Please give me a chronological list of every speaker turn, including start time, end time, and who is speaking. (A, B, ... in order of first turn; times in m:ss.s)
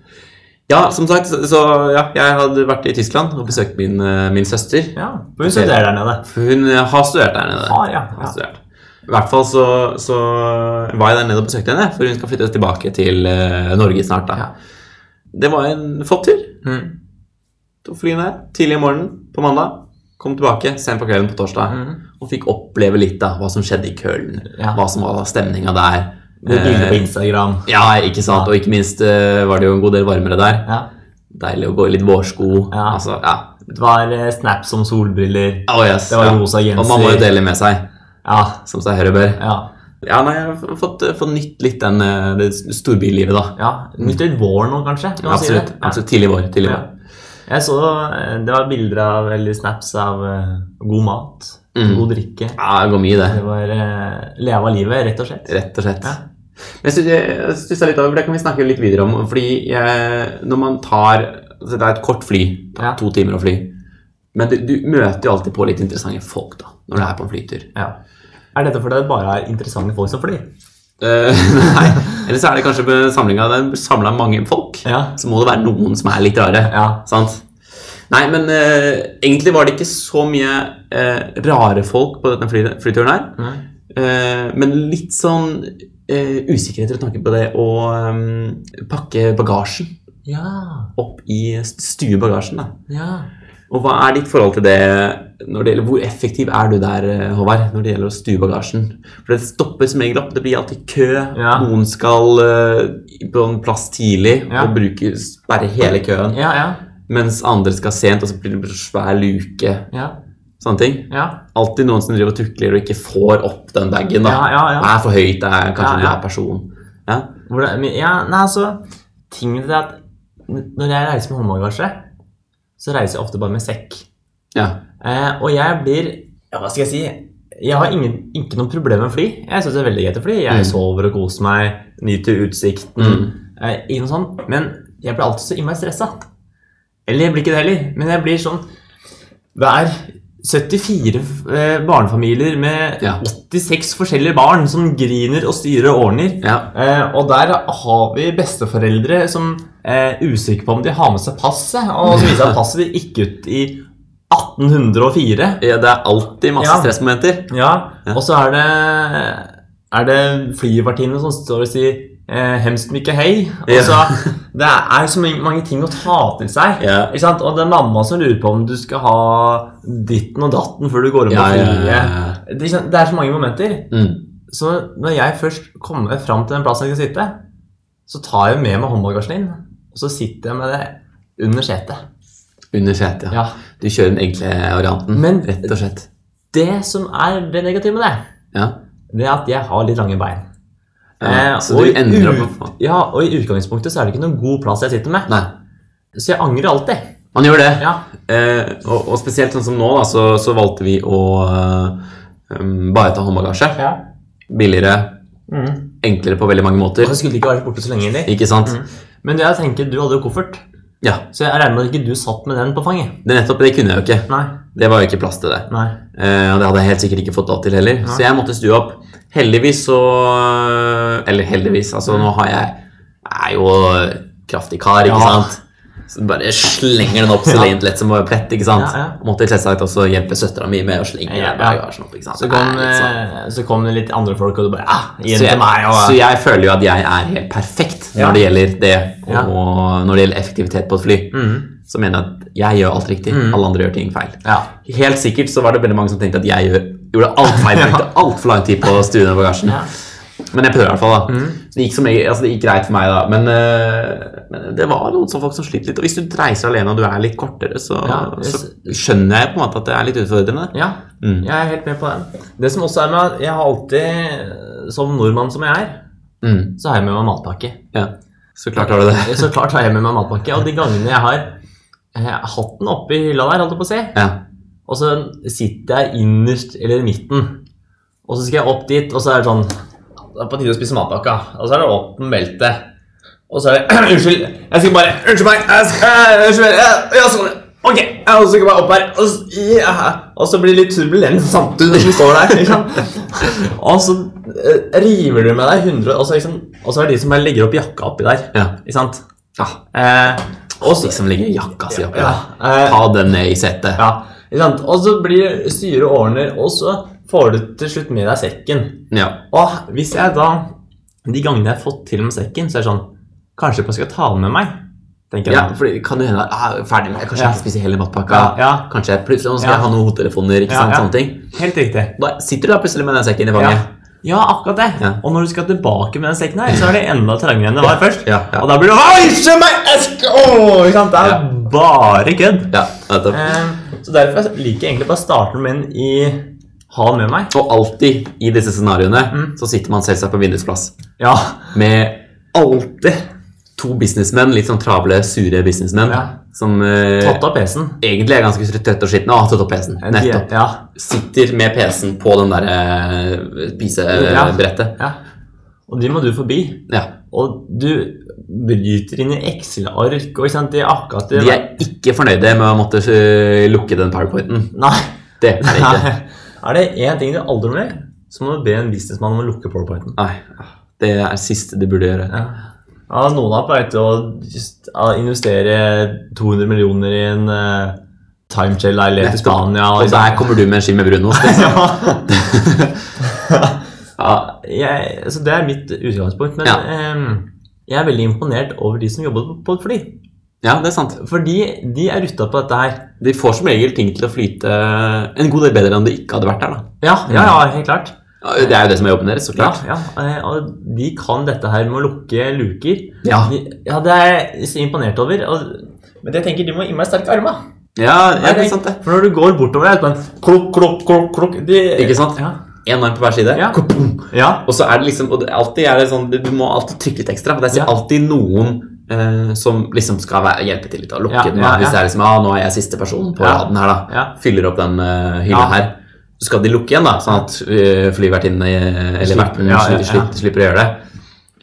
0:00.7-0:14.4 A
0:05.0-0:06.2 B
0:07.6-0:08.3 B
0:15.3-0:16.5 A
0:16.6-0:16.9 B
0:17.8-0:27.1 A
0:21.7-0:22.0 B
0:24.5-0:24.8 B
0:26.4-0:27.7 B
0:27.7-0:30.7 A
0:31.3-0:33.5 A
0:32.7-0:33.0 B
0:33.6-0:37.3 B
0:35.7-0:37.8 A
0:38.2-0:38.6 B
0:38.6-0:39.4 A
0:39.4-0:39.7 B
0:40.0-0:44.2 A
0:43.6-0:46.0 B
0:45.2-0:46.9 A
0:47.5-0:52.6 B
0:51.7-0:52.0 A
0:52.6-0:53.4 A
0:53.2-0:56.2 B
0:55.5-0:56.2 A
0:56.8-1:03.7 A
1:04.3-1:07.7 A
1:08.5-1:10.4 B
1:11.0-1:17.4 A
1:14.8-1:15.1 B
1:16.7-1:17.0 B
1:18.1-1:23.3 A
1:23.4-1:23.6 B
1:23.9-1:29.9 A
1:30.2-1:30.9 B
1:31.0-1:32.7 A
1:32.9-1:33.3 B
1:33.7-1:46.4 A
1:41.3-1:41.7 B
1:46.3-1:46.8 B
1:47.1-1:49.9 A
1:50.6-1:57.3 A
1:51.1-1:51.4 B
1:54.2-1:54.9 B
1:55.8-1:56.2 B
1:57.5-2:02.0 B
2:02.8-2:04.0 B
2:05.0-2:16.2 B
2:10.5-2:10.8 A
2:13.0-2:13.3 A
2:17.1-2:18.6 B
2:19.5-2:35.6 B
2:26.4-2:26.7 A
2:35.6-2:37.5 A
2:36.6-2:36.9 B
2:37.5-2:53.9 B
2:43.7-2:44.3 A
2:46.8-2:47.1 A
2:51.3-2:52.4 A
2:53.9-2:54.2 A
2:54.5-2:57.4 B
2:58.1-3:02.0 B
3:02.7-3:06.1 A
3:05.1-3:05.7 B
3:06.5-3:08.2 B
3:09.1-3:10.4 B
3:11.2-3:12.7 A
3:11.2-3:15.3 B
3:16.1-3:17.0 B
3:17.3-3:22.0 A
3:22.5-3:23.8 A
3:24.5-3:25.1 A
3:25.5-3:25.8 B
3:26.0-3:27.2 A
3:27.0-3:30.6 B
3:28.2-3:28.8 A
3:31.3-3:33.2 B
3:33.2-3:53.1 A
3:34.3-3:34.6 B
3:35.7-3:36.0 B
3:45.0-3:45.5 B
3:48.8-3:49.2 B
3:51.2-3:51.8 B
3:52.3-3:56.2 B
3:55.3-4:09.9 A
3:58.2-3:58.4 B
4:01.3-4:01.7 B
4:03.3-4:03.6 B
4:04.4-4:04.7 B
4:07.5-4:08.0 B
4:10.5-4:21.5 A
4:11.3-4:11.6 B
4:18.0-4:18.9 B
4:20.7-4:26.0 B
4:26.4-4:26.7 A
4:26.8-4:27.8 B
4:27.9-4:29.5 A
4:28.8-4:31.5 B
4:32.1-4:34.2 B
4:34.9-4:37.6 B
4:38.3-4:39.7 B
4:40.3-4:42.8 B
4:43.5-4:59.2 B
4:59.9-5:01.2 B
5:00.8-5:04.0 A
5:01.9-5:03.0 B
5:04.0-5:10.7 B
5:09.1-5:09.4 A
5:11.2-5:13.0 B
5:13.6-5:14.7 B
5:15.3-5:15.7 B
5:15.4-5:21.4 A
5:17.3-5:17.6 B
5:18.3-5:18.9 B
5:19.6-5:19.8 B
5:20.7-5:22.1 B
5:22.2-5:23.8 A
5:23.6-5:32.7 B
5:28.2-5:28.6 A
5:32.7-5:33.5 A
5:33.3-5:37.5 B
5:37.5-5:40.9 A
5:41.2-5:41.8 B
5:41.7-5:42.2 A
5:42.5-5:43.2 B
5:43.8-5:47.4 A
5:46.1-5:46.3 B
5:47.2-5:48.0 B
5:48.0-5:54.9 A
5:50.0-5:50.8 B
5:54.1-5:55.2 B
5:55.9-6:01.7 B
6:01.3-6:04.7 A
6:04.7-6:10.2 B
6:05.4-6:06.1 A
6:10.2-6:12.4 A
6:12.3-6:12.6 B
6:13.1-6:18.0 B
6:18.5-6:20.5 B
6:19.2-6:23.0 A
6:21.3-6:22.3 B
6:23.2-6:30.1 B
6:24.2-6:24.5 A
6:30.6-6:31.2 A
6:31.2-6:33.0 B
6:33.2-6:37.6 A
6:37.0-6:38.6 B
6:38.4-6:39.8 A
6:39.5-6:47.6 B
6:43.2-6:43.5 A
6:48.0-6:49.0 A
6:48.4-6:52.6 B
6:52.0-7:11.0 A
6:53.5-6:54.6 B
7:01.3-7:02.0 B
7:03.4-7:04.3 B
7:05.5-7:05.8 B
7:09.2-7:10.3 B